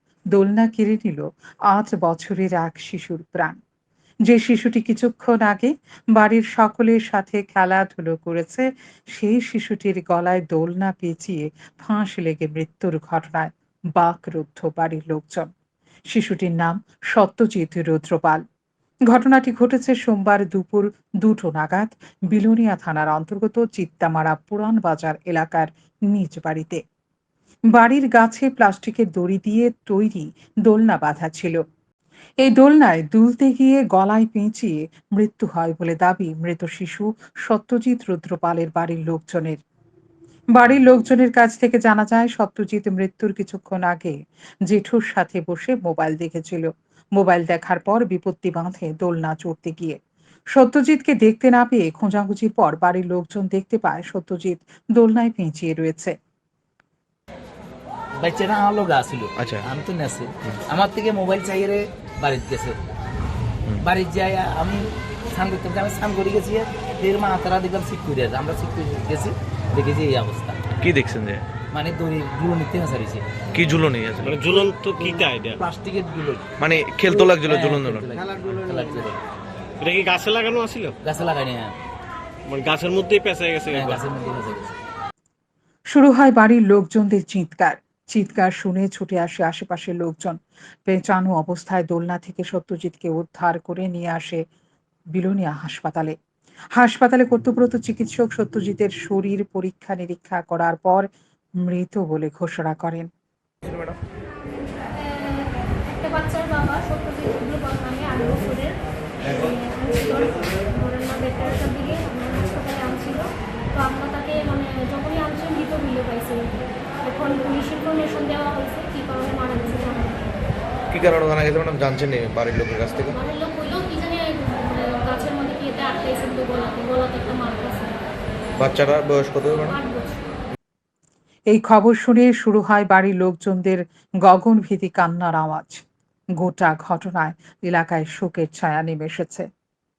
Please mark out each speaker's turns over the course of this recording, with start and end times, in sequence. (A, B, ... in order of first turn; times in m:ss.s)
0:00.3-0:03.6 A
0:04.3-0:15.5 A
0:16.1-0:18.4 A
0:19.1-0:26.8 A
0:27.7-0:31.6 A
0:32.4-0:39.6 A
0:40.5-0:50.0 A
0:50.5-0:56.2 A
0:58.2-1:02.8 B
0:59.4-0:59.6 C
1:03.8-1:10.6 B
1:10.8-1:11.5 C
1:11.7-1:13.2 B
1:13.5-1:14.6 C
1:14.4-1:15.6 D
1:15.6-1:16.5 B
1:16.6-1:18.1 C
1:17.4-1:19.2 B
1:19.8-1:21.0 D
1:21.0-1:21.8 B
1:22.5-1:24.0 D
1:23.7-1:24.8 B
1:25.9-1:34.4 A
1:35.1-1:36.2 A
1:36.8-1:41.1 A
1:41.6-1:43.1 A
1:43.6-1:44.0 C
1:44.9-2:00.3 E
2:00.9-2:03.2 C
2:03.1-2:08.0 E
2:08.6-2:09.8 C
2:09.7-2:10.2 E
2:11.5-2:15.8 A
2:16.4-2:19.5 A